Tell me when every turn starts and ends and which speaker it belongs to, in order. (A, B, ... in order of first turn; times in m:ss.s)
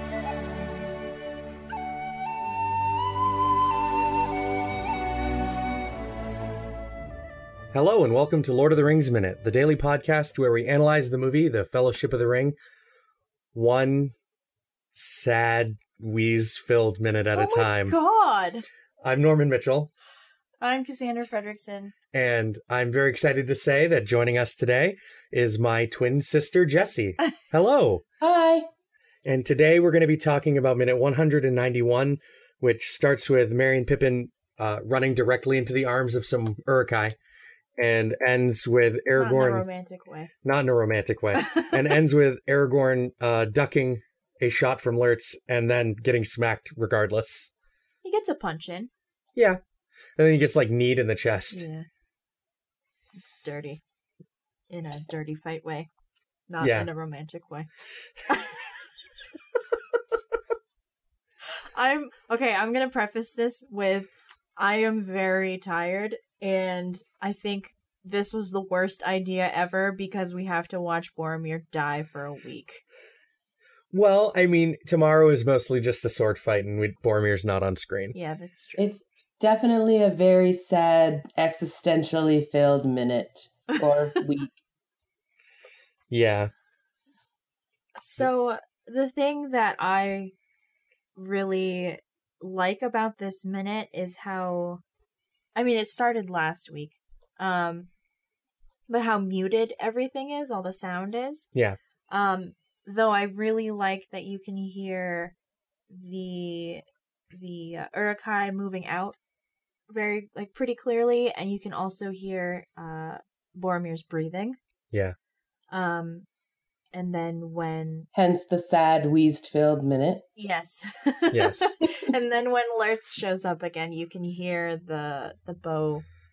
0:07.7-0:12.6 A
0:13.5-0:14.1 A
0:14.9-0:18.0 A
0:17.4-0:18.7 B
0:19.0-0:19.9 A
0:20.6-0:21.9 B
0:22.1-0:28.0 A
0:28.2-0:28.7 C
0:29.2-0:37.2 A
0:37.8-0:39.7 A
0:39.2-0:40.3 B
0:40.4-0:47.5 A
0:41.4-0:41.8 B
0:48.0-0:48.9 B
0:49.4-0:49.6 A
0:50.2-0:51.6 A
0:51.5-0:51.9 B
0:53.2-0:53.8 B
0:54.7-0:55.9 B
0:56.5-0:57.7 B
0:56.6-0:56.9 A
0:58.3-0:58.8 B
1:01.4-1:12.8 B
1:13.9-1:18.2 A
1:18.1-1:18.9 B
1:18.8-1:24.6 C
1:23.7-1:24.2 B
1:26.1-1:26.5 A
1:28.0-1:30.3 B
1:31.2-1:34.8 B
1:35.6-1:37.9 B
1:38.9-1:41.5 B
1:42.1-1:45.3 B
1:45.9-1:49.2 B
1:49.9-1:54.6 B
1:55.7-1:56.3 B
1:56.9-1:58.1 B
1:58.1-2:00.2 C
2:00.4-2:06.0 B
2:01.3-2:01.7 A